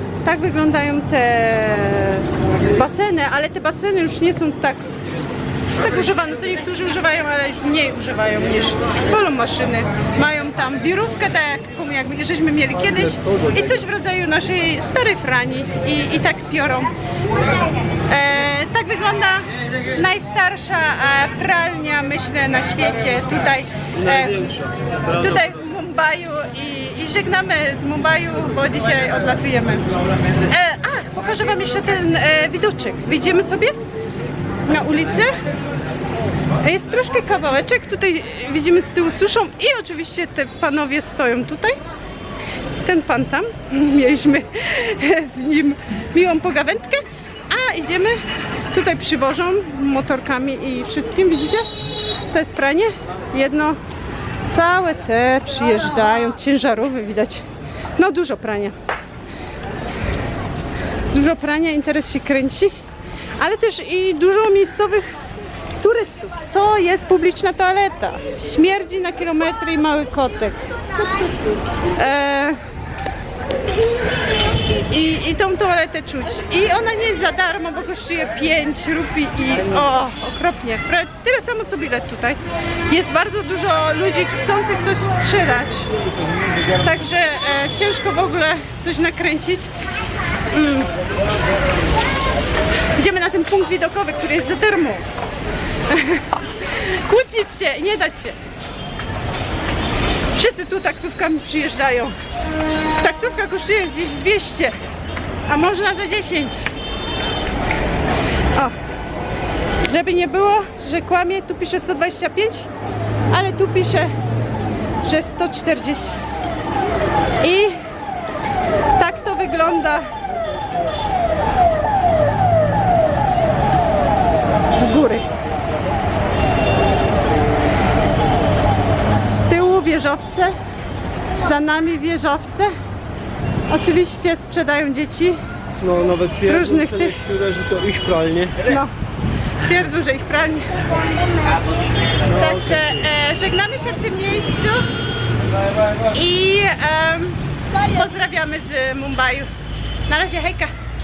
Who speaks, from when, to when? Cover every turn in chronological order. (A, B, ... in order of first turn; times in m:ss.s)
0:00.2-0:04.9 A
0:05.8-0:16.9 A
0:12.8-0:13.8 B
0:18.1-0:24.4 A
0:23.9-0:25.6 B
0:25.1-0:29.8 A
0:30.5-0:33.7 A
0:34.6-0:35.4 A
0:36.6-0:41.8 A
0:42.8-0:48.2 A
0:48.7-0:51.6 A
0:52.3-0:53.8 A
0:54.5-0:57.4 A
0:58.0-0:58.8 A
1:01.1-1:02.7 A
1:03.4-1:05.1 A
1:05.8-1:10.7 A
1:12.0-1:12.6 A
1:14.9-1:25.9 A
1:26.8-1:29.7 A
1:30.5-1:30.9 A
1:33.0-1:35.0 A
1:35.9-1:38.4 A
1:40.3-1:42.2 A
1:43.0-1:44.8 A
1:45.5-1:46.7 A
1:49.8-1:52.7 A
1:53.3-1:54.1 A
1:55.0-1:56.2 A
1:57.4-1:57.7 A
1:59.0-2:00.1 A
2:04.7-2:05.3 A
2:09.2-2:10.5 A
2:11.4-2:12.7 A
2:13.7-2:15.4 A
2:15.8-2:18.7 B
2:16.5-2:17.2 A
2:18.6-2:18.9 A
2:19.6-2:21.4 A
2:22.3-2:23.1 B
2:22.3-2:24.8 A
2:26.0-2:29.5 A
2:30.1-2:30.7 A